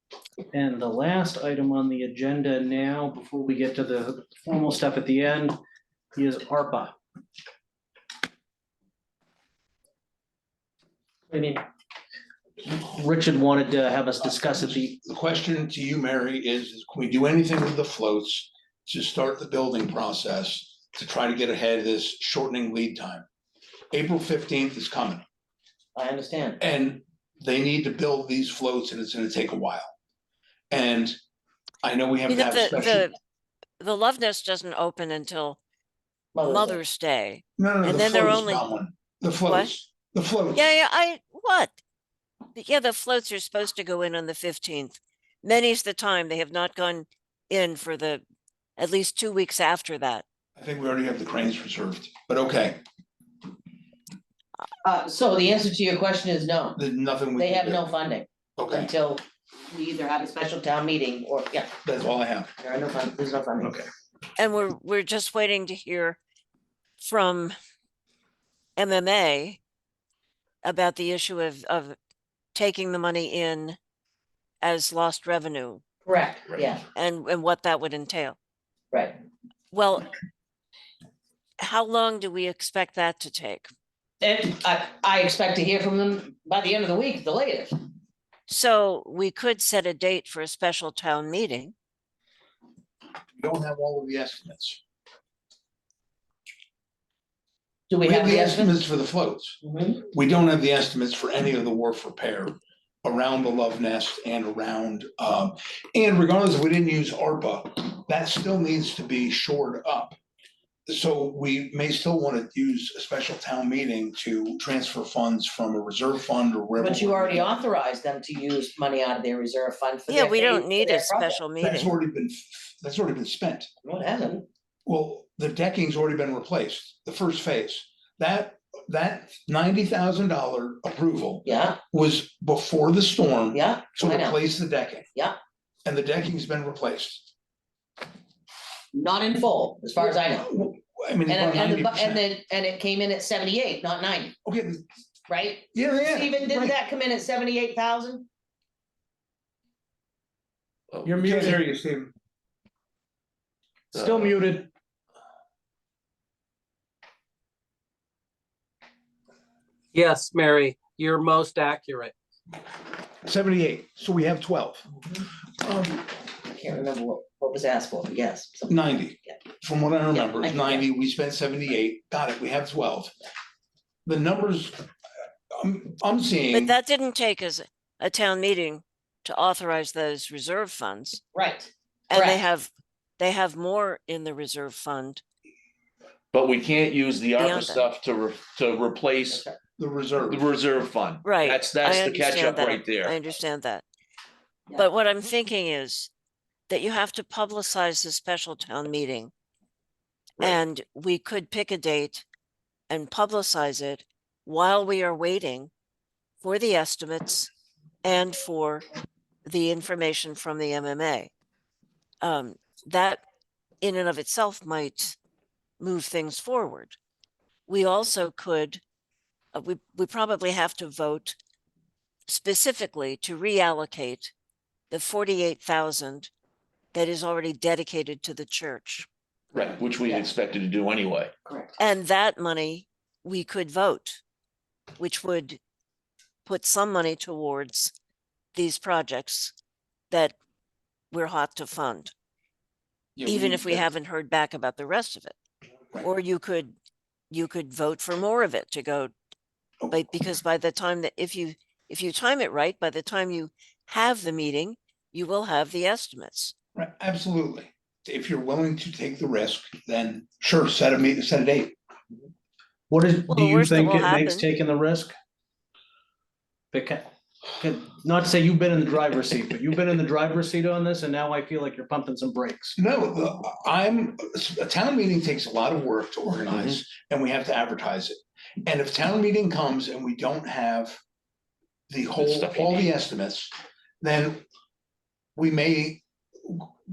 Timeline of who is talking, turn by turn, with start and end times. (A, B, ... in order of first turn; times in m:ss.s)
0:00.5-0:05.6 A
0:06.1-0:06.9 A
0:11.3-0:11.6 A
0:12.6-0:15.0 A
0:14.2-0:23.2 B
0:23.9-0:25.2 B
0:25.9-0:26.6 C
0:26.6-0:29.9 B
0:30.7-0:31.2 B
0:31.8-0:33.1 B
0:32.3-0:33.1 D
0:33.8-0:35.6 D
0:36.3-0:36.8 C
0:36.4-0:38.6 D
0:37.6-0:40.7 B
0:39.4-0:39.7 D
0:40.5-0:41.8 D
0:42.5-0:48.2 D
0:48.8-0:50.2 D
0:50.6-0:52.8 B
0:54.8-0:56.8 C
0:56.8-0:57.8 B
0:57.4-1:01.7 C
0:58.6-0:58.9 B
1:01.8-1:02.5 B
1:02.6-1:03.8 C
1:04.4-1:06.2 D
1:07.0-1:07.5 D
1:08.8-1:09.6 D
1:10.6-1:12.0 D
1:12.5-1:13.8 D
1:14.6-1:15.8 D
1:16.0-1:16.8 C
1:16.9-1:18.4 D
1:19.7-1:20.1 D
1:21.6-1:23.7 D
1:24.2-1:27.7 C
1:28.5-1:31.7 D
1:33.4-1:34.8 B
1:37.9-1:38.8 C
1:38.0-1:50.1 B
1:39.6-1:40.0 C
1:50.9-1:57.6 B
1:56.8-2:01.4 C
2:00.1-2:01.9 D
2:01.6-2:03.7 B
2:03.8-2:04.4 C
2:04.8-2:15.1 B
2:11.4-2:11.8 C
2:13.5-2:14.4 C
2:15.8-2:17.3 B
2:18.9-2:20.5 C
2:20.0-2:22.2 B
2:21.3-2:24.4 C
2:24.4-2:24.8 B
2:25.3-2:28.2 C
2:25.7-2:26.6 B
2:31.0-2:31.6 A
2:31.1-2:32.1 B
2:33.9-2:34.7 A
2:33.9-2:34.3 E
2:39.9-2:42.1 F
2:43.2-2:44.9 B
2:45.6-2:46.1 B
2:46.4-2:49.4 C
2:48.7-2:53.1 B
2:50.1-2:50.8 C
2:54.0-2:54.8 B
2:55.5-2:56.7 B
2:56.5-3:01.2 D
3:01.3-3:02.4 C
3:02.1-3:05.2 D
3:06.3-3:09.4 E
3:07.4-3:07.9 D
3:09.3-3:09.6 C
3:09.8-3:10.4 B
3:10.3-3:13.2 E
3:11.2-3:13.8 D
3:14.8-3:16.1 D
3:16.7-3:19.3 D
3:20.4-3:22.2 D
3:22.9-3:25.7 D
3:26.4-3:27.5 D
3:28.0-3:28.8 D
3:29.4-3:31.3 D
3:32.2-3:33.2 D
3:33.8-3:35.2 D
3:35.8-3:36.9 D
3:37.7-3:38.8 D
3:39.5-3:41.4 D
3:42.3-3:44.3 D
3:44.9-3:46.3 D
3:46.9-3:49.1 D
3:49.5-3:51.3 E
3:51.5-3:51.8 C
3:51.8-3:54.2 D
3:55.0-3:55.6 D
3:56.4-3:57.9 D
3:58.5-3:59.5 D
4:01.1-4:02.1 D
4:03.2-4:03.9 B
4:03.2-4:05.3 D
4:06.0-4:06.7 D
4:07.3-4:09.1 D
4:09.9-4:16.5 D
4:16.8-4:21.7 B
4:22.9-4:25.1 A
4:23.3-4:24.5 D
4:26.7-4:32.8 A
4:32.8-4:41.0 B
4:41.9-4:44.4 B
4:42.2-4:42.9 E
4:45.4-4:46.7 B